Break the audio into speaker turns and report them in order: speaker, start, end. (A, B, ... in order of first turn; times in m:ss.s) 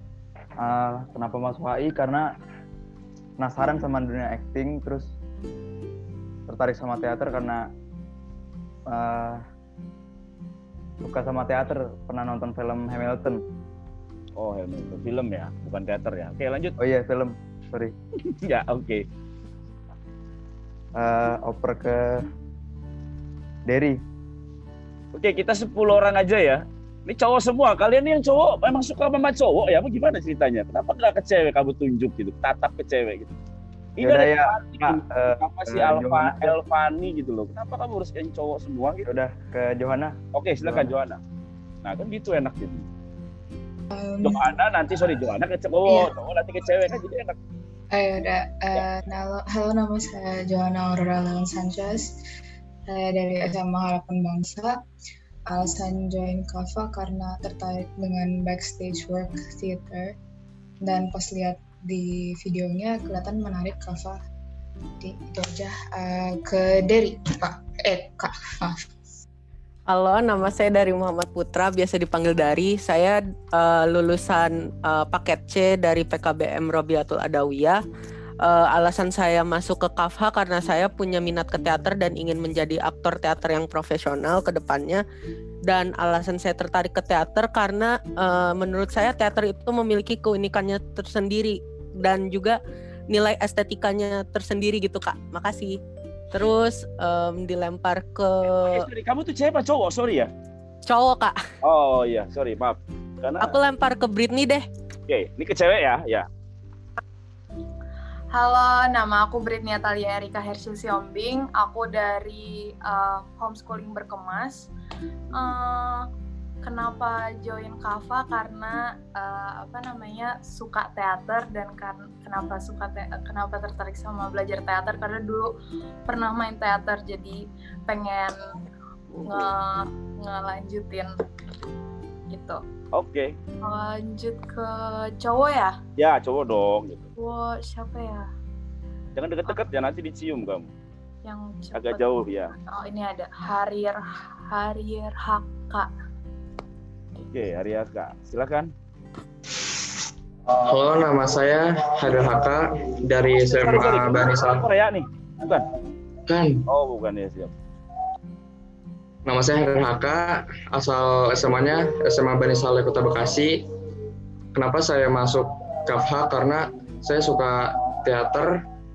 0:00.6-0:02.2 A
0:03.4-0:05.1 A
0:06.5-0:07.6 A
0:08.9-0:09.4 A
0:11.0-0:13.4 A
0:14.4-0:16.7 B
0:16.8-0:17.9 A
0:18.4-0:19.0 B
0:21.0-0:22.2 A
0:23.7-0:24.0 A
0:25.1-0:33.3 B
0:34.0-0:39.0 B
0:34.0-0:36.6 A
0:39.0-0:40.9 A
0:40.3-0:41.2 B
0:41.8-0:42.8 B
0:43.9-0:44.4 C
0:44.2-0:47.4 B
0:47.9-0:52.1 C
0:52.9-0:54.8 C
0:55.5-1:00.1 C
1:00.8-1:04.2 C
1:05.0-1:08.8 C
1:09.9-1:17.8 D
1:18.4-1:25.0 D
1:25.7-1:32.6 D
1:33.1-1:35.8 D
1:36.3-1:38.8 D
1:38.7-1:40.3 B
1:40.9-1:41.4 D
1:41.6-1:43.5 B
1:43.4-1:44.6 D
1:45.1-1:46.3 B
1:48.3-1:54.7 E
1:55.3-1:56.0 E
1:56.6-2:05.5 E
2:06.1-2:08.4 E
2:09.2-2:11.1 E
2:12.3-2:12.6 E
2:12.9-2:13.3 B
2:13.6-2:15.8 E
2:16.0-2:17.0 B
2:17.2-2:18.3 E
2:19.1-2:20.7 B
2:21.2-2:25.9 E
2:21.7-2:22.5 B
2:27.2-2:28.7 B
2:30.6-2:34.6 F
2:33.4-2:35.6 B
2:36.3-2:36.6 F
2:36.7-2:37.5 B
2:39.2-2:43.6 F
2:44.5-2:48.5 F